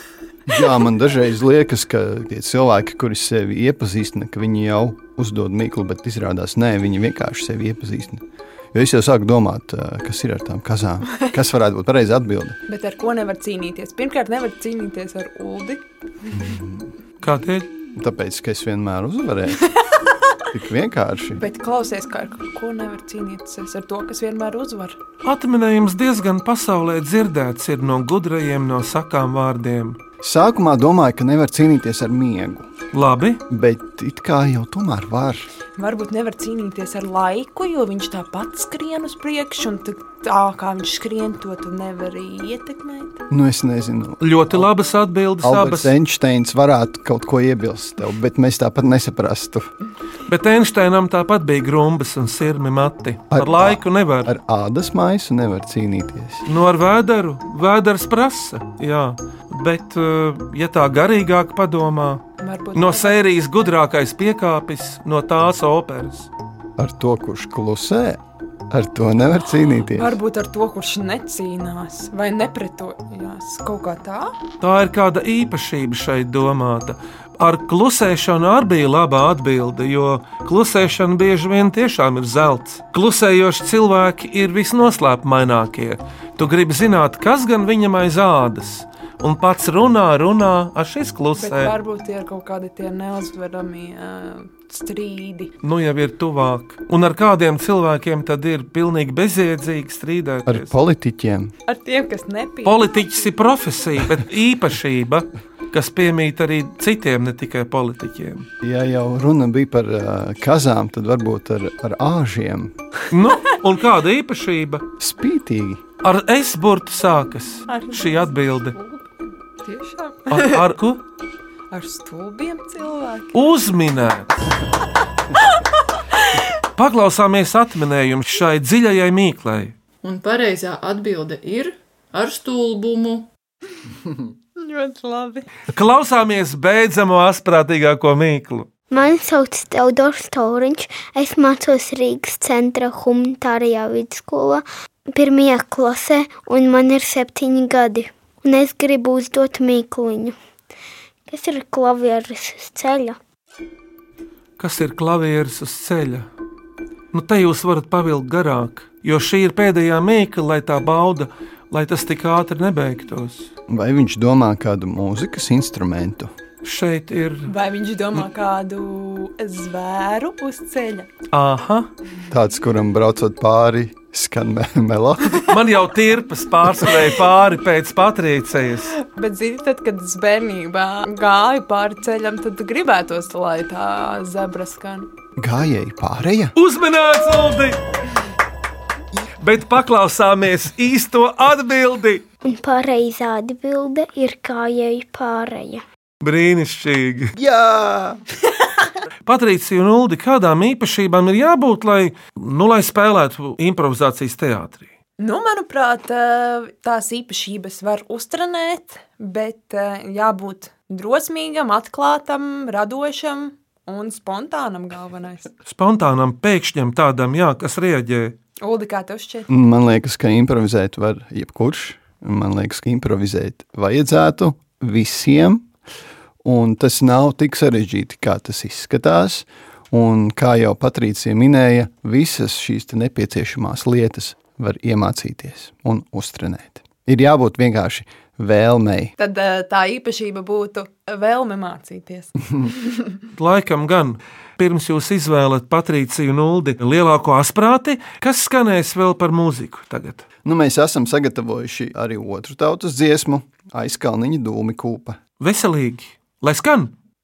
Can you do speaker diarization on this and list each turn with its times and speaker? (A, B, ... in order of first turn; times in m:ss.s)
0:00.5-0:12.6 A
0:12.7-0:15.8 B
0:16.3-0:16.8 A
0:17.2-0:17.7 C
0:17.9-0:19.7 A
0:20.5-0:21.4 A
0:21.4-0:25.0 B
0:25.2-0:30.0 C
0:30.2-0:32.7 A
0:32.9-0:33.4 C
0:33.5-0:35.5 A
0:35.8-0:43.2 B
0:43.3-0:44.7 A
0:44.2-0:45.9 C
0:45.4-0:49.7 A
0:50.3-0:54.3 C
0:53.3-0:56.4 A
0:56.4-1:02.2 C
1:02.4-1:03.2 B
1:02.7-1:06.3 C
1:06.8-1:08.2 A
1:08.7-1:10.2 A
1:09.9-1:14.4 B
1:14.6-1:31.7 C
1:31.4-1:35.5 B
1:35.6-1:40.7 C
1:40.4-1:41.5 A
1:41.7-1:43.1 B
1:42.6-1:48.4 C
1:48.6-1:52.7 A
1:53.1-1:54.8 C
1:55.0-1:55.8 A
1:56.0-1:58.7 C
1:57.7-1:59.0 B
1:59.6-2:00.6 B
2:00.3-2:01.0 C
2:01.7-2:03.3 B
2:03.3-2:04.5 C
2:06.1-2:06.4 B
2:06.7-2:09.7 C
2:10.0-2:13.3 D
2:14.6-2:15.4 B
2:15.7-2:18.7 C
2:18.9-2:30.4 E
2:31.3-2:33.2 E
2:34.6-2:36.3 C
2:37.1-2:43.5 C
2:43.7-2:46.3 A
2:46.6-2:47.5 C
2:47.5-2:51.1 B
2:51.3-2:51.9 C
2:52.3-2:55.4 A
2:55.4-2:58.9 C
2:59.0-3:05.1 B
3:05.4-3:06.5 A
3:06.6-3:07.8 C
3:09.4-3:12.2 C
3:12.4-3:15.8 E
3:16.2-3:17.4 C
3:17.4-3:18.2 A
3:19.2-3:24.9 C
3:25.2-3:35.5 B
3:35.6-3:38.3 C
3:38.6-3:39.5 B
3:39.5-3:45.6 A
3:46.4-3:59.1 A
3:59.2-4:03.0 B
4:03.3-4:10.2 C
4:10.4-4:15.2 A
4:15.4-4:16.9 C